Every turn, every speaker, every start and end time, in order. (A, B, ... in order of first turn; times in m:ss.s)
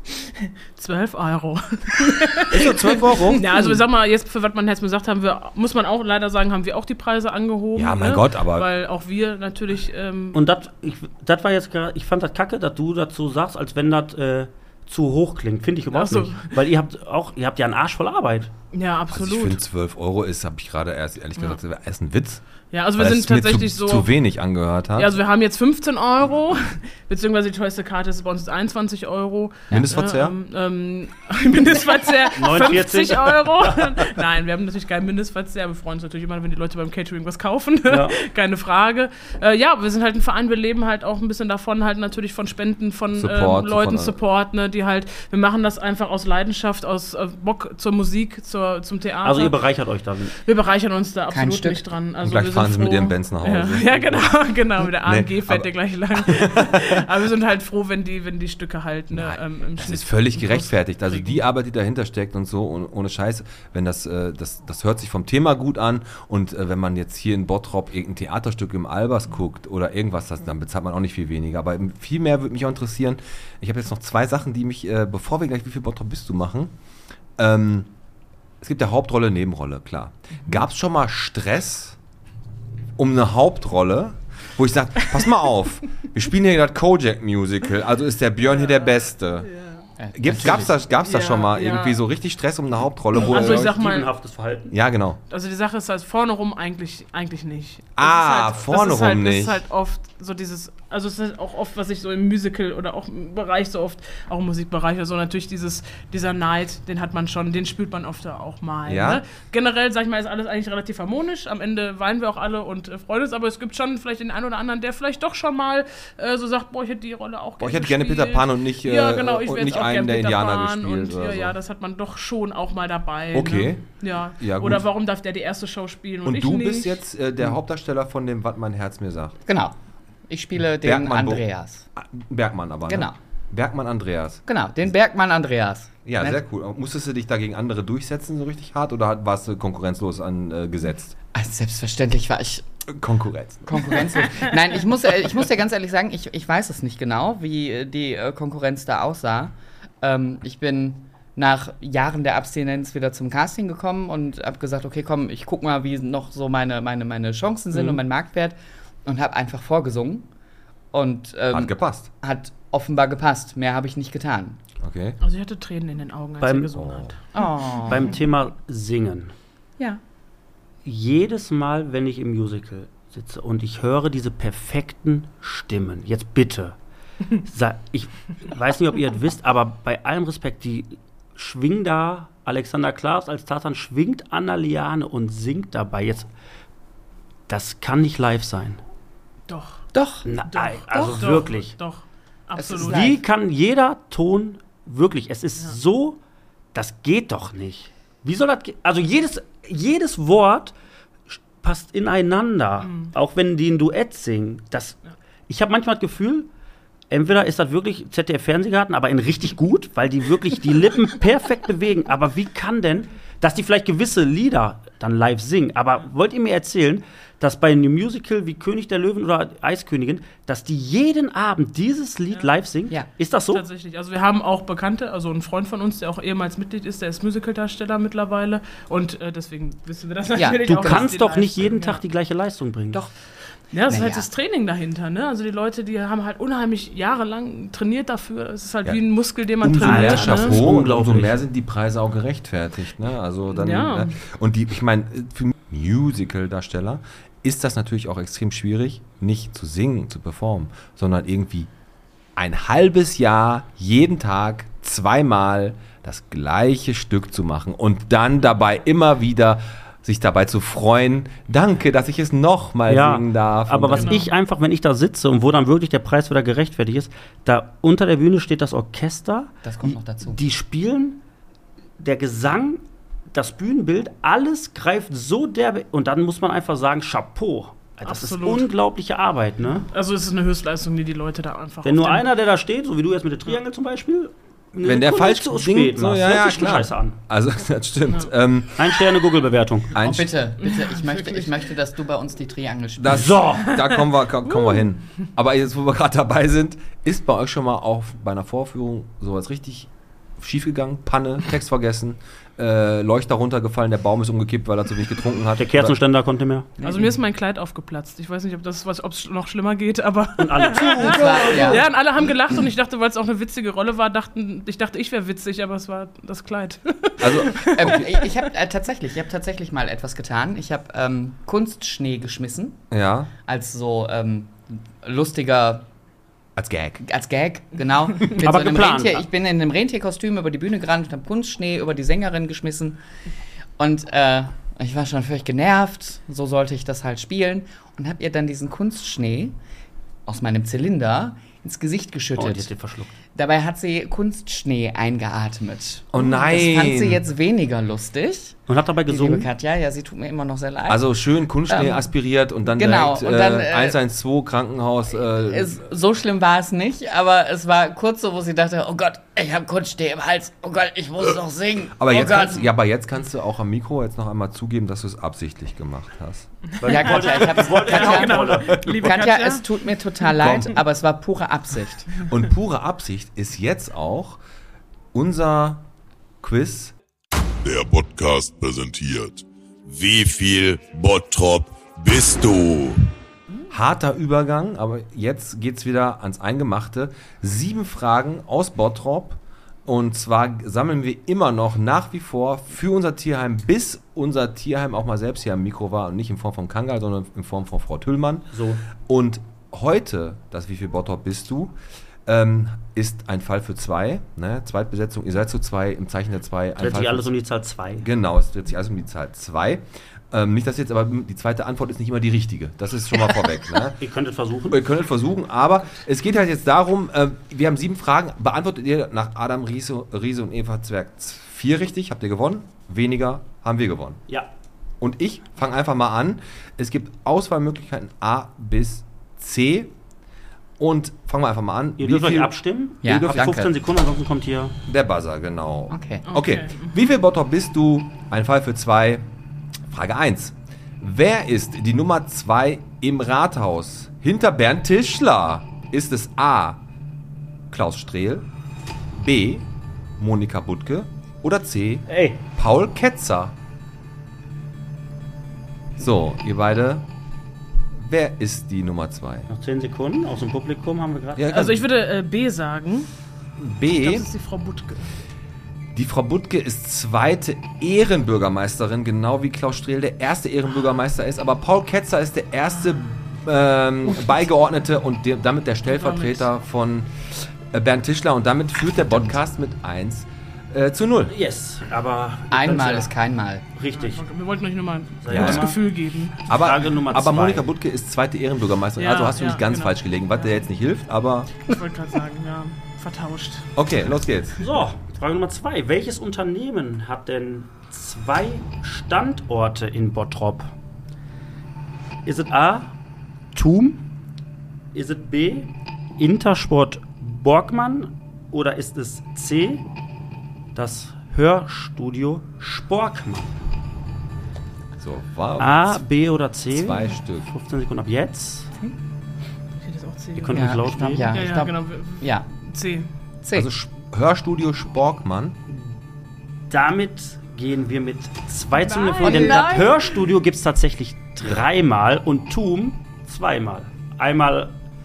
0:00.4-0:10.4 A
0:02.5-0:03.6 B
0:07.7-0:08.7 B
0:10.3-0:18.5 C
0:15.9-0:16.5 A
0:18.7-0:19.6 A
0:19.1-0:22.4 B
0:22.7-0:24.1 A
0:23.0-0:25.2 B
0:25.0-0:49.6 A
0:29.7-0:30.3 B
0:32.3-0:34.2 C
0:37.9-0:38.2 C
0:43.1-0:44.2 B
0:49.2-0:50.3 C
0:50.4-1:01.4 A
0:51.3-0:51.8 D
0:52.2-0:54.2 B
0:53.9-0:54.2 C
0:55.0-0:57.0 B
0:59.1-1:16.7 B
1:17.4-1:17.9 B
1:18.6-1:22.0 B
1:23.0-1:29.5 B
1:28.5-1:29.8 A
1:30.0-1:30.7 D
1:30.1-1:33.7 B
1:30.9-1:32.0 A
1:33.1-1:34.1 A
1:33.2-1:34.7 C
1:34.7-1:35.2 B
1:35.3-2:07.0 A
1:38.0-1:39.6 B
1:48.8-1:49.2 B
1:57.6-2:01.6 B
2:03.3-2:03.8 B
2:04.4-2:04.8 B
2:06.2-2:09.3 B
2:09.5-2:09.7 D
2:10.3-2:11.9 D
2:10.8-2:11.4 B
2:12.0-2:14.4 B
2:12.9-2:13.2 D
2:14.4-2:16.4 D
2:16.0-2:21.2 B
2:21.3-2:22.6 D
2:22.9-2:24.4 B
2:23.7-2:40.3 D
2:37.7-2:38.0 C
2:40.9-2:44.6 D
2:41.5-2:42.1 B
2:44.8-2:45.2 B
2:45.2-2:47.1 A
2:46.4-2:46.7 C
2:46.7-2:47.2 B
2:47.3-2:48.1 D
2:47.8-2:49.3 C
2:50.8-2:56.8 C
2:57.4-3:06.3 C
3:07.5-3:08.8 C
3:09.5-3:09.8 A
3:09.9-3:10.3 D
3:10.2-3:11.7 C
3:10.5-3:13.1 A
3:10.9-3:11.2 D
3:12.6-3:13.2 D
3:12.8-3:16.2 C
3:16.7-3:20.7 C
3:21.3-3:26.5 C
3:22.8-3:23.1 A
3:27.1-3:43.6 C
3:43.5-3:52.0 A
3:50.3-3:51.1 D
3:50.8-3:53.0 C
3:53.7-4:00.7 A
3:53.9-3:54.3 D
3:59.6-4:11.7 B
3:59.8-4:01.4 C
4:03.5-4:04.2 A
4:12.4-4:24.2 B
4:22.9-4:31.2 C
4:23.9-4:24.3 A
4:29.6-4:30.4 D
4:32.0-4:39.9 C
4:38.0-4:38.7 A
4:39.9-4:42.3 A
4:41.8-4:47.2 C
4:44.8-4:49.0 B
4:48.8-4:49.9 C
4:49.9-4:50.3 B
4:50.0-4:53.4 D
4:50.6-4:51.6 A
4:53.0-5:06.0 B
4:53.1-4:53.7 C
4:54.5-4:54.8 A
5:05.6-5:06.7 C
5:06.8-5:18.2 A
5:10.4-5:11.8 C
5:11.0-5:11.9 D
5:17.2-5:18.0 B
5:17.7-5:22.8 D
5:22.9-5:23.3 B
5:23.4-5:25.9 D
5:26.6-5:27.0 B
5:27.0-5:33.0 D
5:28.3-5:29.2 C
5:33.8-5:39.6 D
5:40.3-5:42.7 D
5:42.4-5:43.1 C
5:43.3-5:51.1 D
5:46.1-5:47.2 B
5:48.7-5:49.5 C
5:50.9-5:55.8 B
5:51.7-5:52.1 D
5:52.6-5:54.0 D
5:55.2-6:02.7 D
6:02.0-6:06.5 B
6:06.8-6:08.8 C
6:06.8-6:12.1 D
6:06.9-6:10.6 A
6:08.7-6:09.1 B
6:10.4-6:10.8 B
6:12.3-6:14.4 B
6:15.1-6:15.8 B
6:16.4-6:16.9 B
6:17.6-6:23.1 E
6:23.7-6:41.7 B
6:38.5-6:38.8 C
6:42.2-6:47.3 B
6:46.8-6:48.1 C
6:48.0-6:54.0 B
6:54.0-6:54.8 C
6:54.7-7:04.2 B
7:05.0-7:09.9 B
7:10.8-7:13.5 B
7:12.0-7:14.8 C
7:13.0-7:13.7 D
7:14.8-7:19.2 B
7:15.9-7:16.2 D
7:16.3-7:16.9 A
7:19.9-7:26.8 B
7:27.7-7:28.5 B
7:29.2-7:33.5 B
7:32.1-7:32.4 C
7:36.0-7:37.1 B
7:37.9-7:39.5 B
7:39.5-7:41.5 C
7:41.4-7:41.8 B
7:41.5-7:43.1 A
7:43.6-7:44.3 B
7:43.9-7:45.1 A
7:45.9-8:01.3 B
7:55.9-7:56.5 A
7:59.0-7:59.4 D
8:01.3-8:03.1 C
8:02.5-8:03.6 D
8:03.8-8:04.2 C
8:03.9-8:06.5 A
8:05.2-8:05.8 C
8:05.3-8:05.7 B
8:06.5-8:11.5 B
8:06.5-8:07.6 C
8:09.0-8:10.6 A
8:11.7-8:13.7 A
8:13.8-8:14.6 B
8:14.6-8:20.7 C
8:22.2-8:23.0 C
8:23.5-8:24.0 C
8:24.9-8:29.8 C
8:30.7-8:33.6 C
8:35.0-8:36.0 B
8:35.6-8:38.7 C
8:36.7-8:37.5 B
8:39.8-8:40.8 A
8:40.4-8:41.3 C
8:40.5-8:42.4 D
8:41.3-8:43.1 A
8:43.4-8:43.7 D
8:43.5-8:45.6 B
8:46.7-8:54.7 C
8:48.7-8:50.2 A
8:49.2-8:50.0 D